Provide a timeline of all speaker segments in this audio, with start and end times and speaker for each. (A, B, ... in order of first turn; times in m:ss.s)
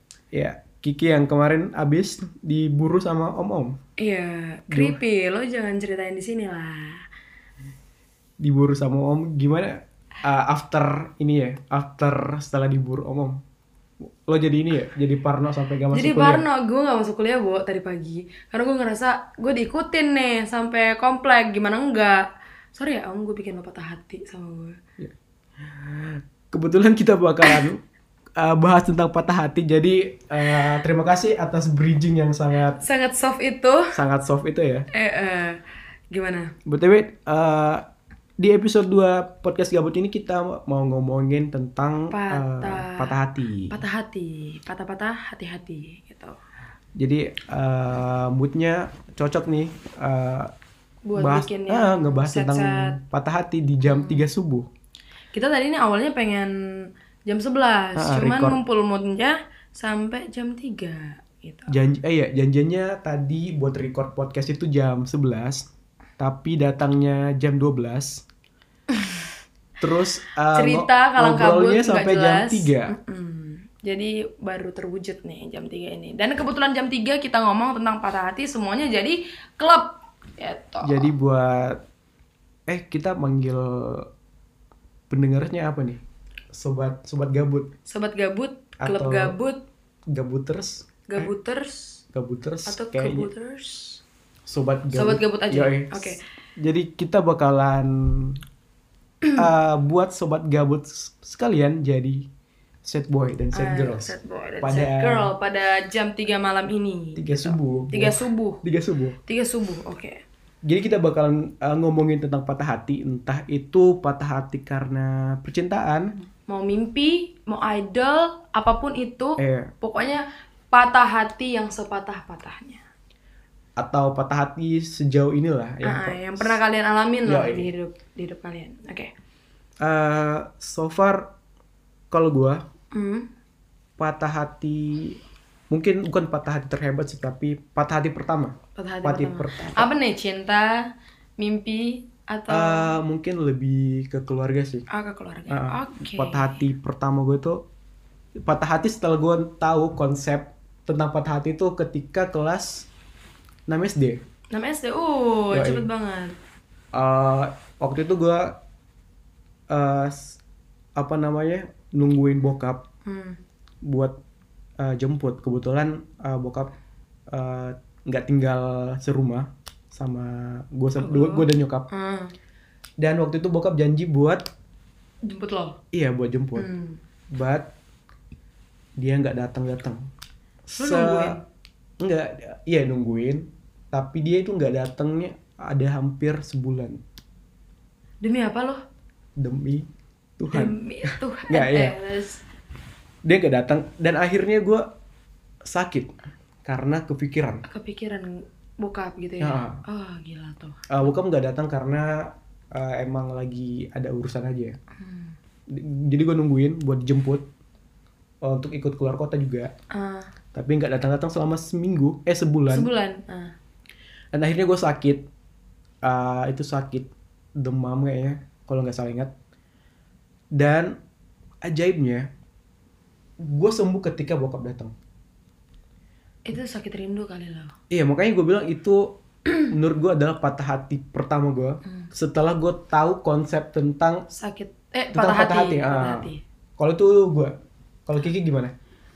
0:00.3-0:03.8 A
0:04.0-0:07.0 B
0:04.7-0:05.0 A
0:08.4-0:13.4 A
0:14.0-0:16.4 A
0:15.9-0:24.8 B
0:25.0-0:27.8 A
0:28.4-0:32.8 A
0:32.8-0:34.0 B
0:33.9-0:34.9 A
0:34.9-0:36.5 B
0:36.7-0:37.8 A
0:38.4-0:43.8 A
0:42.1-0:43.2 B
0:43.7-0:46.4 B
0:47.0-0:50.5 A
0:51.0-0:53.0 B
0:51.2-0:54.7 A
0:53.8-0:54.3 B
0:55.3-1:01.8 B
0:58.0-0:58.6 A
1:01.7-1:08.3 A
1:08.9-1:09.3 B
1:09.8-1:13.0 A
1:10.5-1:21.1 B
1:20.8-1:21.8 A
1:22.7-1:24.1 A
1:25.1-1:26.0 A
1:26.5-1:27.7 A
1:27.9-1:29.6 B
1:28.8-1:29.4 A
1:30.1-1:31.3 A
1:31.1-1:32.0 B
1:32.1-1:33.3 A
1:32.7-1:34.0 B
1:34.5-1:38.4 A
1:34.9-1:36.2 B
1:39.4-1:42.3 A
1:42.8-1:45.3 A
1:43.5-1:48.6 B
1:47.2-1:49.2 A
1:49.3-1:50.2 B
1:50.6-1:56.1 A
1:56.5-2:02.8 B
1:59.4-1:59.7 A
2:03.8-2:06.6 A
2:05.8-2:09.1 B
2:07.3-2:07.7 A
2:09.8-2:11.3 A
2:12.1-2:12.6 A
2:12.9-2:13.3 B
2:14.0-2:15.2 A
2:15.7-2:19.9 A
2:18.8-2:23.0 B
2:22.5-2:24.9 A
2:24.9-2:26.6 B
2:25.5-2:27.6 A
2:28.4-2:32.9 A
2:33.7-2:34.2 A
2:34.5-2:36.4 B
2:35.5-2:35.9 A
2:36.9-2:38.6 A
2:39.7-2:40.4 A
2:41.0-2:42.8 A
2:43.0-2:43.4 B
2:43.8-2:44.2 A
2:44.8-2:46.7 A
2:47.3-2:51.9 A
2:51.0-2:52.3 B
2:53.0-2:54.5 A
2:55.2-2:55.8 B
2:55.9-2:56.7 A
2:56.6-2:57.0 B
2:57.3-2:57.7 A
2:59.0-3:00.1 A
3:00.7-3:01.4 A
3:00.8-3:01.4 B
3:02.0-3:07.0 A
3:08.2-3:08.8 B
3:09.4-3:12.0 A
3:10.5-3:12.4 B
3:13.2-3:14.9 A
3:15.6-3:17.6 A
3:17.6-3:20.9 B
3:19.4-3:19.8 A
3:20.9-3:24.8 A
3:25.0-3:25.4 B
3:25.7-3:27.4 A
3:28.4-3:29.7 A
3:29.9-3:30.3 B
3:30.5-3:32.9 A
3:32.7-3:33.5 B
3:34.3-3:35.2 A
3:36.0-3:39.3 A
3:40.5-3:41.0 A
3:41.6-3:42.3 A
3:43.4-3:44.9 A
3:46.5-3:47.7 B
3:47.9-3:54.2 A
3:54.3-3:56.4 B
3:55.1-3:58.7 A